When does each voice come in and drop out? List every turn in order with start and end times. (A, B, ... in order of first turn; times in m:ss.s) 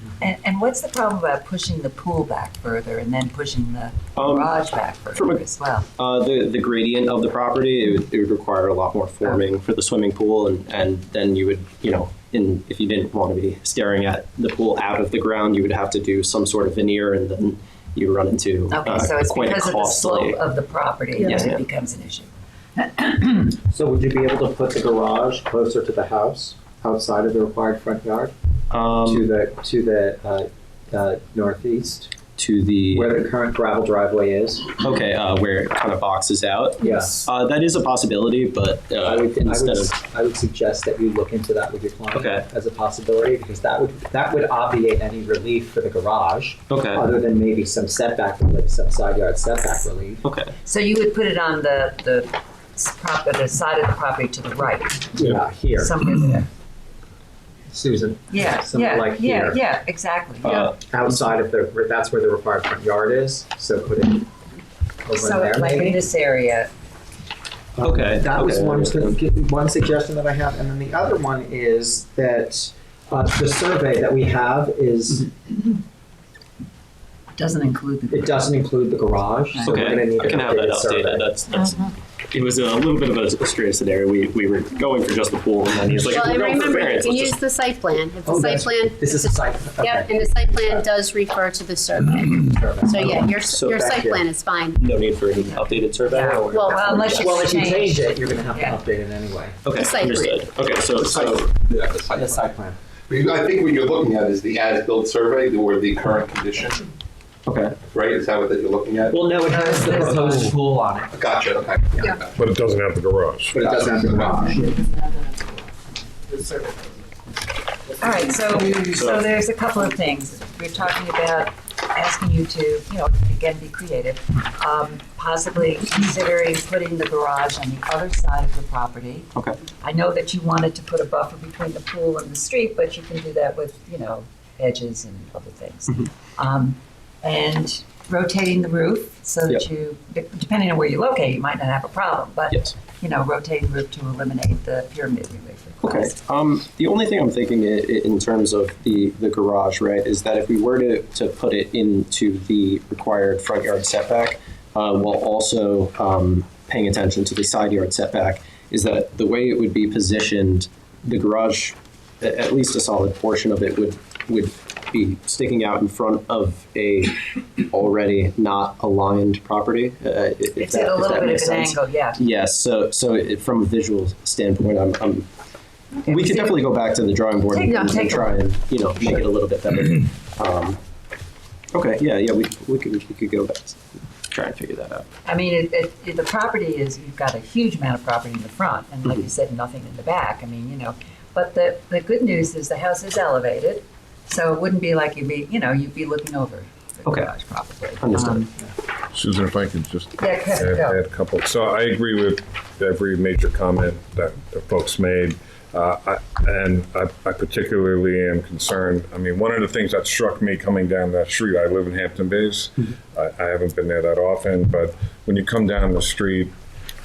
0:00.2-0:05.9 A
0:04.2-0:04.5 B
0:05.1-0:05.4 B
0:06.0-0:20.4 B
0:18.7-0:23.5 A
0:21.2-0:21.6 B
0:23.6-0:28.3 C
0:28.7-0:29.3 B
0:29.0-0:32.1 C
0:32.4-0:33.2 B
0:32.9-0:34.7 C
0:34.8-0:40.0 B
0:36.8-0:37.3 C
0:39.0-0:50.2 C
0:42.1-0:42.5 B
0:46.7-0:47.1 B
0:50.2-0:50.5 B
0:50.6-0:55.1 A
0:55.1-0:55.9 C
0:55.7-0:56.5 A
0:57.7-0:59.6 C
0:58.3-1:00.7 A
1:00.4-1:00.8 B
1:00.7-1:04.3 C
1:05.0-1:06.0 C
1:05.1-1:06.7 A
1:07.8-1:15.5 C
1:07.8-1:09.2 B
1:17.4-1:18.6 A
1:18.1-1:21.3 C
1:19.5-1:20.2 A
1:19.6-1:27.4 B
1:26.1-1:34.9 D
1:28.2-1:30.9 C
1:32.5-1:34.2 C
1:33.5-1:34.0 B
1:34.7-1:37.3 B
1:36.0-1:38.8 A
1:36.5-1:37.5 D
1:37.2-1:39.6 C
1:39.6-1:41.5 B
1:39.8-1:40.4 D
1:41.0-1:42.4 E
1:42.2-1:42.8 C
1:43.1-1:46.9 E
1:47.5-1:47.8 B
1:47.9-1:50.0 E
1:49.1-1:51.1 C
1:49.5-1:50.5 A
1:51.1-1:52.4 E
1:52.4-1:53.6 F
1:53.5-1:54.8 C
1:53.6-1:54.5 E
1:58.0-2:26.2 A
1:58.7-1:59.3 B
2:25.8-2:55.3 B
2:50.6-2:52.2 A
2:56.1-3:00.8 B
2:56.1-2:56.6 A
2:57.5-2:58.3 A
3:01.7-3:05.1 B
3:05.2-3:18.5 A
3:17.0-3:17.3 B
3:18.0-3:18.5 B
3:19.1-3:36.5 F
3:20.2-3:21.0 A